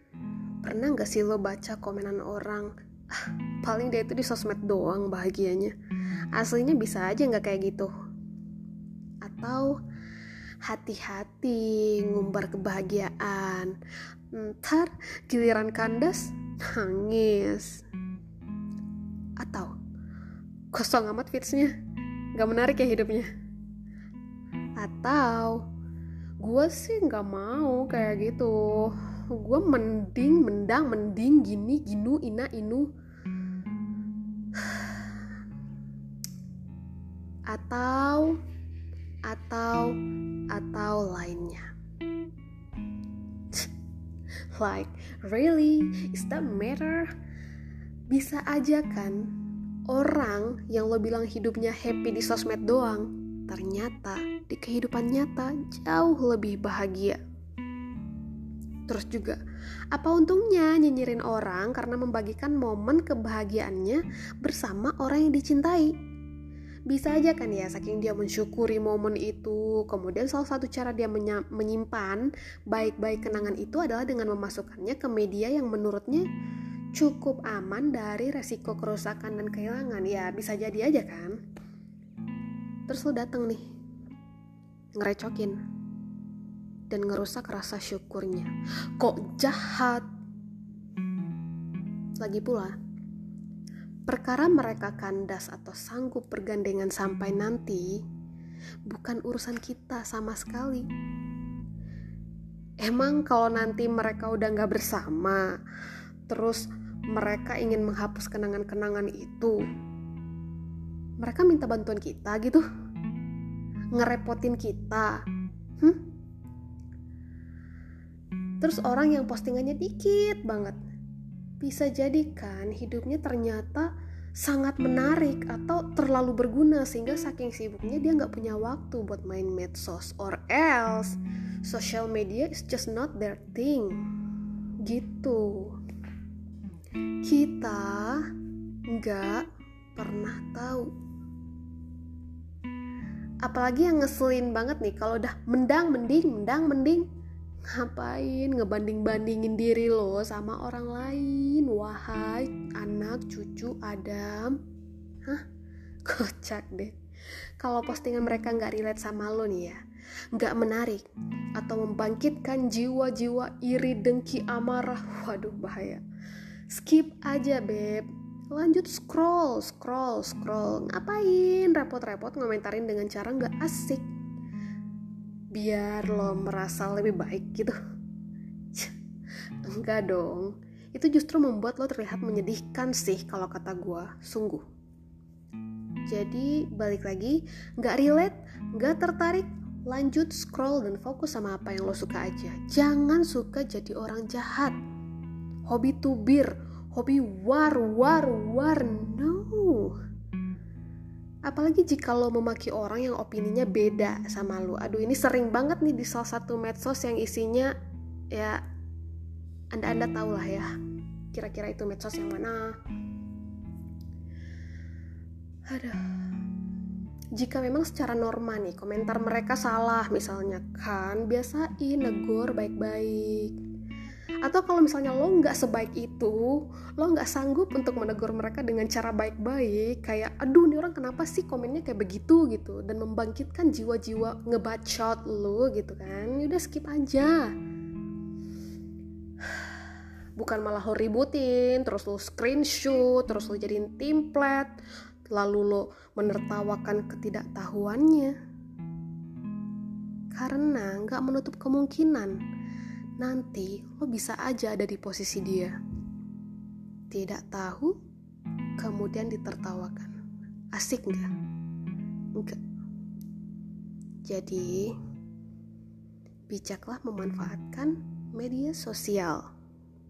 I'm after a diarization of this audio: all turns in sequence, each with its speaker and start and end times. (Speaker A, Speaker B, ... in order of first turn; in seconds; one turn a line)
Speaker A: 0.6-5.7
Speaker A: 6.3-7.9
Speaker A: 9.2-9.8
Speaker A: 10.6-13.8
Speaker A: 14.3-17.8
Speaker A: 19.4-19.7
Speaker A: 20.7-21.7
Speaker A: 22.4-23.3
Speaker A: 24.8-25.6
Speaker A: 26.4-32.9
Speaker A: 34.5-35.0
Speaker A: 37.5-38.4
Speaker A: 39.3-40.0
Speaker A: 40.5-41.7
Speaker A: 44.5-47.1
Speaker A: 48.1-49.2
Speaker A: 49.9-57.2
Speaker A: 58.9-59.4
Speaker A: 59.9-65.9
Speaker A: 66.9-76.3
Speaker A: 76.9-81.4
Speaker A: 82.9-83.7
Speaker A: 85.0-85.6
Speaker A: 86.9-90.1
Speaker A: 92.2-92.8
Speaker A: 94.1-98.0
Speaker A: 98.9-100.9
Speaker A: 102.8-105.5
Speaker A: 106.3-109.6
Speaker A: 111.2-112.6
Speaker A: 113.9-115.2
Speaker A: 115.8-116.1
Speaker A: 118.6-120.8
Speaker A: 121.6-134.0
Speaker A: 134.8-135.8
Speaker A: 137.2-138.3
Speaker A: 138.9-139.4
Speaker A: 140.0-140.9
Speaker A: 143.4-147.1
Speaker A: 147.7-154.6
Speaker A: 156.1-156.9
Speaker A: 157.6-159.8
Speaker A: 160.3-161.1
Speaker A: 161.6-166.0
Speaker A: 166.7-174.1
Speaker A: 175.5-177.8
Speaker A: 179.6-184.6
Speaker A: 186.1-194.8
Speaker A: 195.7-199.9
Speaker A: 201.5-207.7
Speaker A: 208.3-208.6
Speaker A: 209.7-210.7
Speaker A: 211.3-212.8
Speaker A: 215.7-216.0
Speaker A: 217.3-223.6
Speaker A: 224.4-237.5
Speaker A: 240.4-244.8
Speaker A: 245.3-248.3
Speaker A: 250.3-252.4
Speaker A: 253.2-255.8
Speaker A: 257.1-258.0
Speaker A: 258.8-260.1
Speaker A: 260.7-261.3
Speaker A: 264.2-264.9
Speaker A: 266.5-269.5